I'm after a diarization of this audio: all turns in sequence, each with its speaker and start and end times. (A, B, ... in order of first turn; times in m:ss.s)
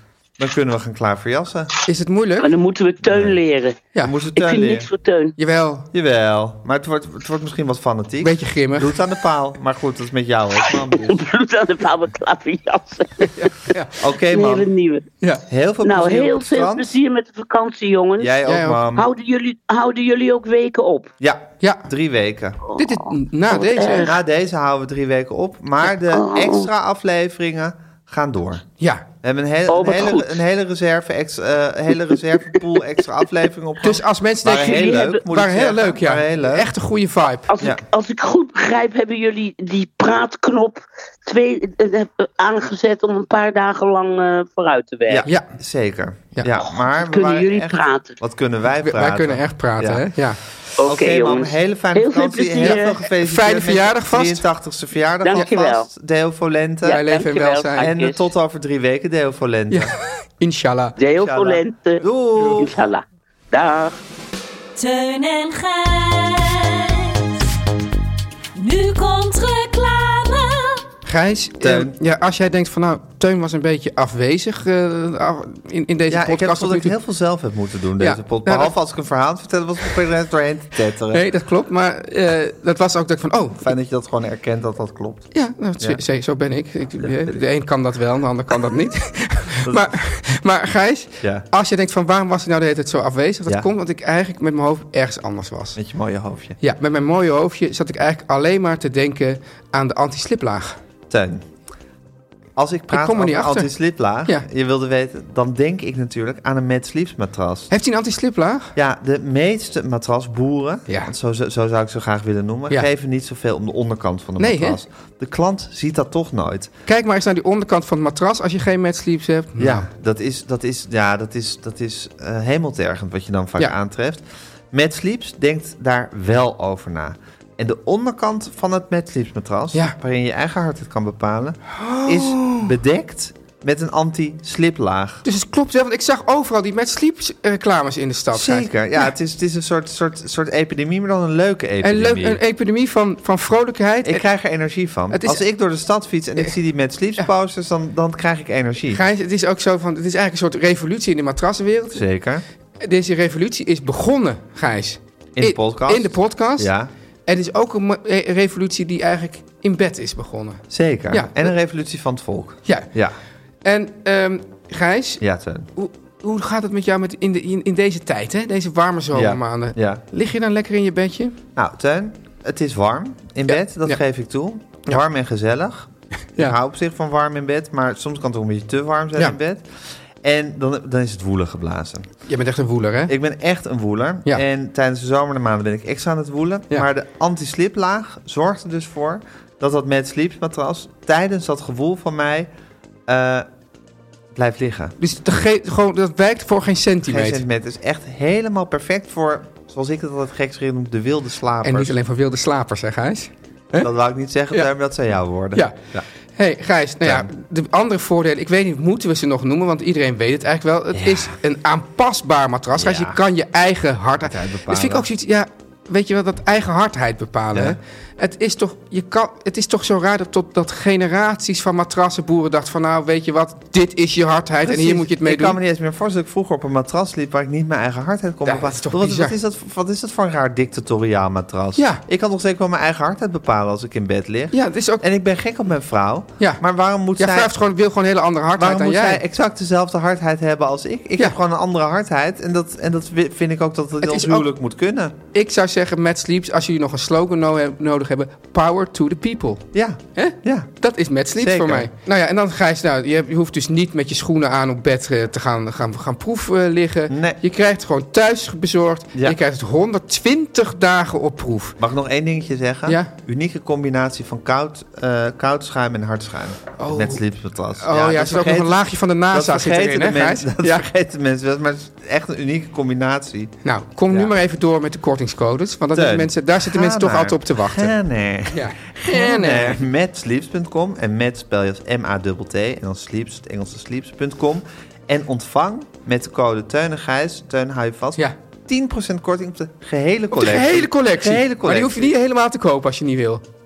0:00.4-0:01.7 A
0:01.9-0:02.5 B
0:02.4-0:03.8 C
0:03.0-0:03.4 A
0:04.0-0:04.9 A
0:04.4-0:05.4 C
0:05.4-0:05.9 B
0:05.9-0:11.2 A
0:08.2-0:09.0 B
0:10.9-0:13.4 C
0:13.2-0:14.0 B
0:14.0-0:14.7 A
0:14.3-0:15.0 C
0:15.5-0:16.9 A
0:15.8-0:18.3 C
0:18.2-0:19.1 A
0:18.5-0:18.8 B
0:19.0-0:21.1 C
0:21.2-0:22.6 A
0:21.6-0:21.9 B
0:22.6-0:24.2 C
0:22.8-0:24.1 B
0:24.0-0:28.6 A
0:26.1-0:26.7 C
0:29.2-0:36.7 A
0:29.7-0:30.4 C
0:33.8-0:37.5 B
0:37.5-0:45.3 C
0:45.1-0:50.1 A
0:46.6-0:48.2 C
0:48.8-0:50.4 B
0:50.8-0:53.0 C
0:50.8-0:57.0 A
0:52.6-0:54.5 B
0:55.2-0:55.9 C
0:56.8-0:58.2 C
0:56.9-0:57.9 B
0:57.8-0:59.9 A
0:59.7-1:01.0 B
1:01.0-1:04.0 C
1:01.2-1:02.8 A
1:04.8-1:07.5 D
1:08.6-1:10.8 D
1:11.0-1:17.0 B
1:11.6-1:12.0 A
1:16.1-1:21.2 A
1:18.0-1:18.7 B
1:21.1-1:23.7 B
1:23.6-1:26.0 A
1:25.3-1:35.8 B
1:27.0-1:27.4 A
1:29.6-1:29.9 A
1:31.2-1:31.5 A
1:35.8-1:36.6 A
1:36.6-1:40.8 B
1:41.1-1:41.4 A
1:42.6-1:47.7 A
1:42.9-1:43.7 B
1:47.7-1:48.7 B
1:48.8-1:56.7 A
1:54.4-1:54.8 B
1:56.9-1:59.9 B
1:59.6-2:15.2 A
2:11.7-2:12.7 B
2:15.2-2:18.7 B
2:18.3-2:22.4 A
2:21.8-2:24.2 B
2:24.0-2:29.0 A
2:25.1-2:25.4 B
2:28.9-2:32.0 B
2:31.9-2:32.4 A
2:32.8-2:36.7 B
2:35.4-2:36.9 A
2:37.3-2:41.5 B
2:40.7-2:43.2 A
2:43.6-2:45.2 B
2:45.2-2:45.7 A
2:45.8-2:51.4 B
2:49.1-2:50.0 A
2:51.6-2:59.7 A
2:53.5-2:54.0 B
3:00.2-3:02.1 A
3:02.3-3:03.1 B
3:03.1-3:12.5 A
3:13.1-3:13.5 A
3:14.4-3:15.0 A
3:15.0-3:17.4 B
3:17.0-3:22.0 A
3:21.6-3:23.9 B
3:23.8-3:26.1 A
3:26.4-3:45.6 B
3:27.0-3:27.3 A
3:30.9-3:31.3 A
3:32.8-3:33.2 A
3:34.2-3:35.1 A
3:44.6-3:57.6 A
3:48.4-3:49.4 B
3:51.8-3:52.0 B
3:54.5-3:55.0 B
3:57.2-3:59.2 B
3:58.6-4:05.2 A
4:04.0-4:04.5 B
4:05.3-4:21.8 B
4:09.7-4:10.7 A
4:11.4-4:11.9 A
4:17.1-4:17.4 A
4:21.8-4:33.6 A
4:22.9-4:23.1 B
4:26.8-4:27.2 B
4:27.8-4:30.9 B
4:33.6-4:38.0 B
4:34.1-4:34.3 A
4:35.9-4:52.1 A
4:38.5-4:39.8 B
4:50.3-4:53.4 B